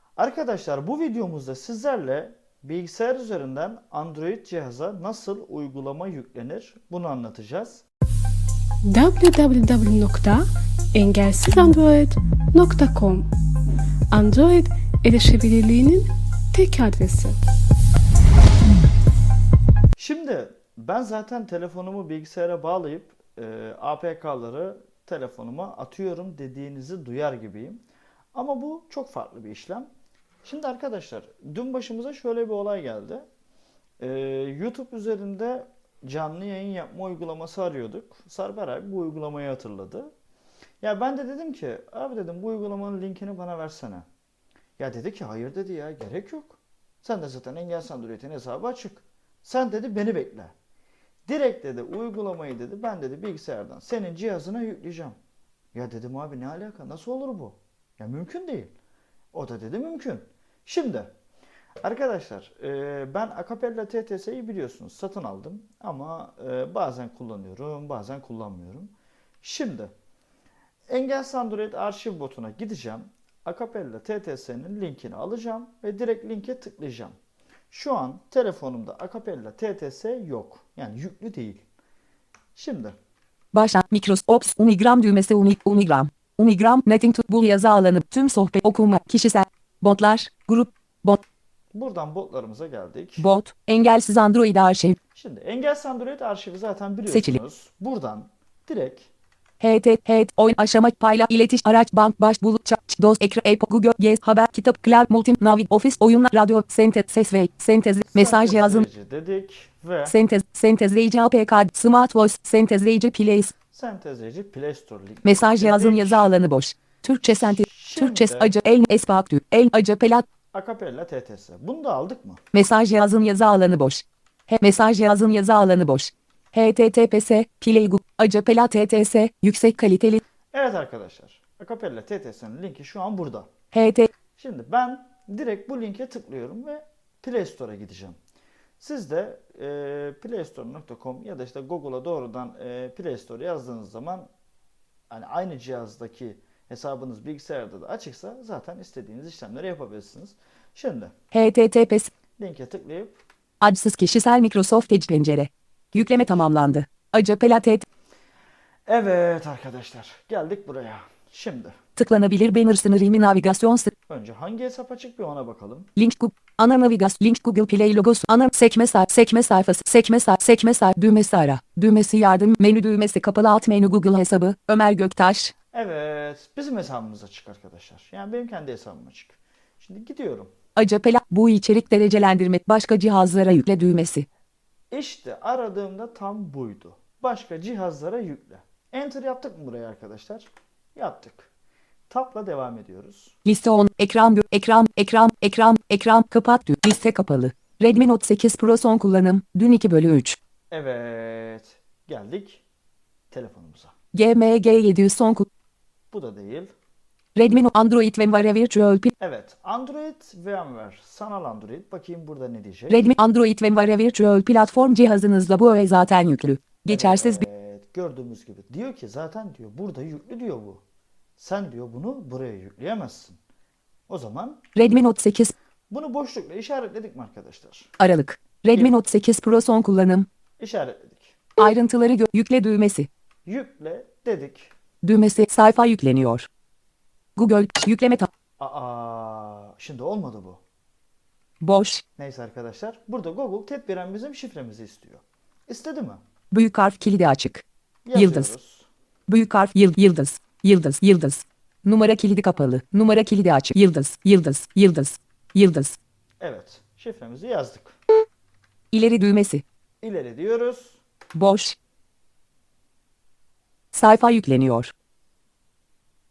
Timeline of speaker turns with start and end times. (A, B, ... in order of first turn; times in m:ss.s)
0:00.2-0:07.8 A
0:08.8-0:13.3 B
0:14.1-0:17.4 B
0:20.0-0:27.8 A
0:28.3-0:29.9 A
0:30.4-0:33.2 A
0:34.0-0:40.1 A
0:40.8-0:44.0 A
0:44.8-0:50.5 A
0:51.2-0:55.2 A
0:55.7-0:58.7 A
0:59.3-1:01.1 A
1:01.8-1:09.9 A
1:10.9-1:17.2 A
1:17.7-1:21.6 A
1:22.5-1:23.0 A
1:23.5-1:31.2 C
1:31.7-1:33.3 A
1:33.2-1:35.0 C
1:35.1-1:39.1 A
1:37.1-1:37.4 C
1:39.6-1:48.9 C
1:48.1-1:50.2 A
1:50.0-1:53.5 C
1:53.7-1:56.3 A
1:55.2-2:00.2 C
1:57.3-1:58.5 A
2:00.5-2:02.4 A
2:02.5-2:10.2 C
2:10.5-2:13.5 A
2:13.7-2:14.1 C
2:14.4-2:18.2 A
2:18.8-2:24.3 A
2:25.1-2:31.1 A
2:31.3-2:32.1 C
2:32.4-2:33.2 A
2:33.6-2:37.8 C
2:35.9-2:36.5 A
2:38.9-2:41.8 A
2:42.0-2:43.9 C
2:44.1-2:45.9 A
2:46.0-2:55.5 C
2:55.7-3:00.5 A
3:00.8-3:04.2 C
3:04.9-3:11.5 A
3:12.1-3:13.4 A
3:13.4-3:20.4 C
3:20.7-3:22.6 A
3:23.3-3:23.9 A
3:24.1-3:25.5 C
3:26.1-3:26.7 A
3:27.4-3:29.1 C
3:29.2-3:33.1 A
3:32.9-3:37.4 C
3:36.9-3:40.8 A
3:41.4-3:43.4 A
3:44.1-3:44.6 A
3:44.7-3:45.5 C
3:45.9-3:47.9 A
3:48.0-3:50.3 C
3:50.6-3:51.4 A
3:51.6-3:53.1 C
3:53.4-3:54.7 A
3:55.0-3:56.5 C
3:57.4-3:58.3 C
3:58.6-4:00.6 A
4:01.6-4:02.0 C
4:02.2-4:06.2 A
4:06.5-4:08.5 C
4:08.0-4:08.9 A
4:09.3-4:16.0 C
4:16.4-4:18.0 A
4:18.9-4:19.6 C
4:20.0-4:21.0 A
4:21.3-4:21.8 C
4:23.9-4:24.9 C